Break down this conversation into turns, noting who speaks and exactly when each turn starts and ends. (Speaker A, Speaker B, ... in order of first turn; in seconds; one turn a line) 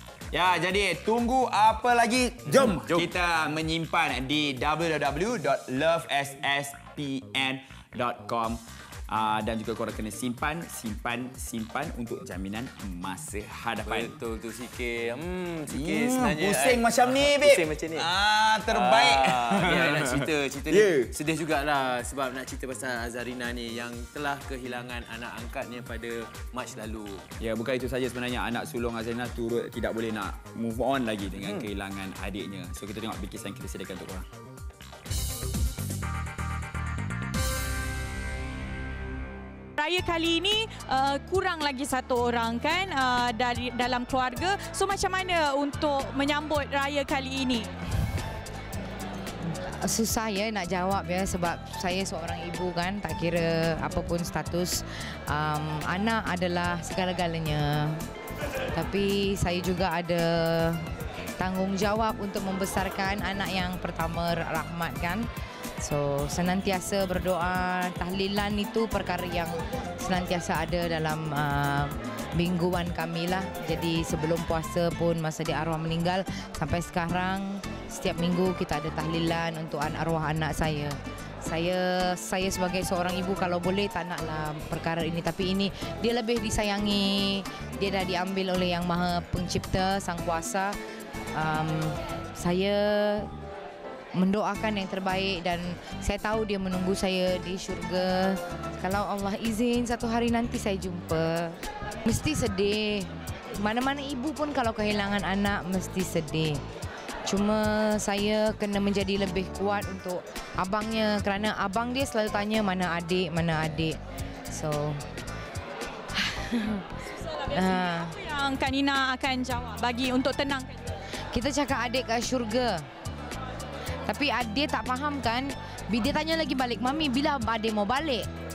Speaker A: 0.3-14.2
Speaker B: 2.5-3.1
Speaker B: 13.9-18.1
Speaker A: 15.7-21.1
Speaker B: 18.7-27.3
Speaker A: 27.4-34.3
Speaker B: 31.4-31.7
Speaker C: 39.8-47.7
Speaker D: 49.5-58.0
Speaker D: 58.7-60.9
Speaker D: 61.4-65.3
Speaker D: 65.8-90.7
Speaker D: 91.3-93.3
Speaker D: 94.2-106.6
Speaker D: 107.2-114.0
Speaker D: 114.5-115.0
Speaker D: 116.1-116.9
Speaker C: 117.3-120.8
Speaker D: 117.5-118.1
Speaker D: 121.3-122.8
Speaker D: 124.1-128.3